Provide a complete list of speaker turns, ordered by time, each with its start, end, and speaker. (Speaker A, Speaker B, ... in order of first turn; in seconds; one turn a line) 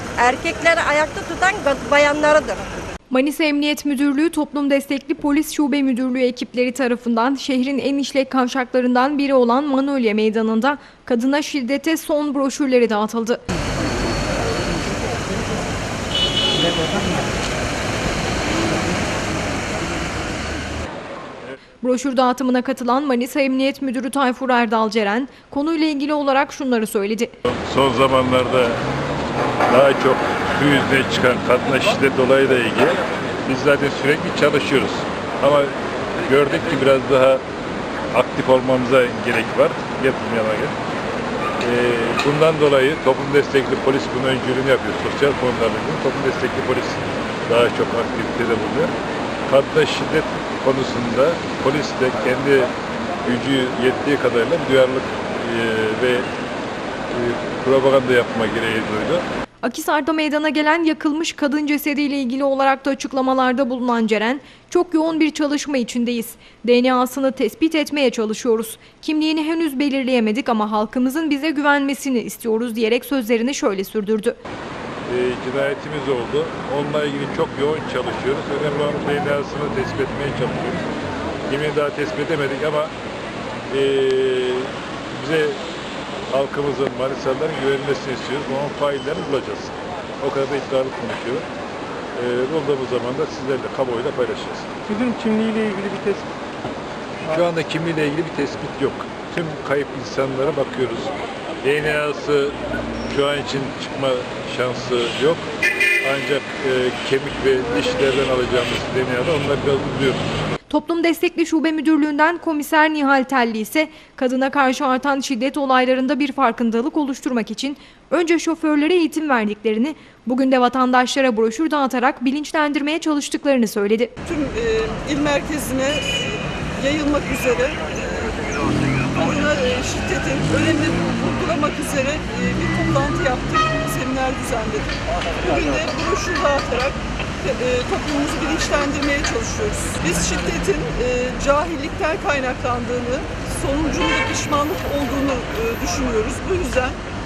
Speaker A: 0.2-2.6
Speaker B: 3.1-13.4
Speaker C: 14.5-15.4
Speaker C: 16.6-17.4
Speaker C: 18.7-20.1
Speaker B: 21.8-27.4
Speaker D: 27.5-28.8
Speaker D: 29.7-35.7
Speaker D: 36.3-37.4
Speaker D: 38.1-40.8
Speaker D: 41.6-48.9
Speaker D: 49.5-52.7
Speaker D: 53.2-56.3
Speaker D: 57.1-59.2
Speaker B: 59.6-74.4
Speaker D: 75.1-80.8
Speaker D: 81.5-82.9
Speaker D: 83.7-85.6
Speaker D: 86.3-91.5
Speaker D: 92.2-94.8
Speaker C: 94.9-96.3
Speaker D: 97.2-102.5
Speaker D: 103.1-105.4
Speaker D: 106.0-110.2
Speaker B: 110.7-124.1
Speaker E: 124.2-128.6
Speaker E: 129.1-147.0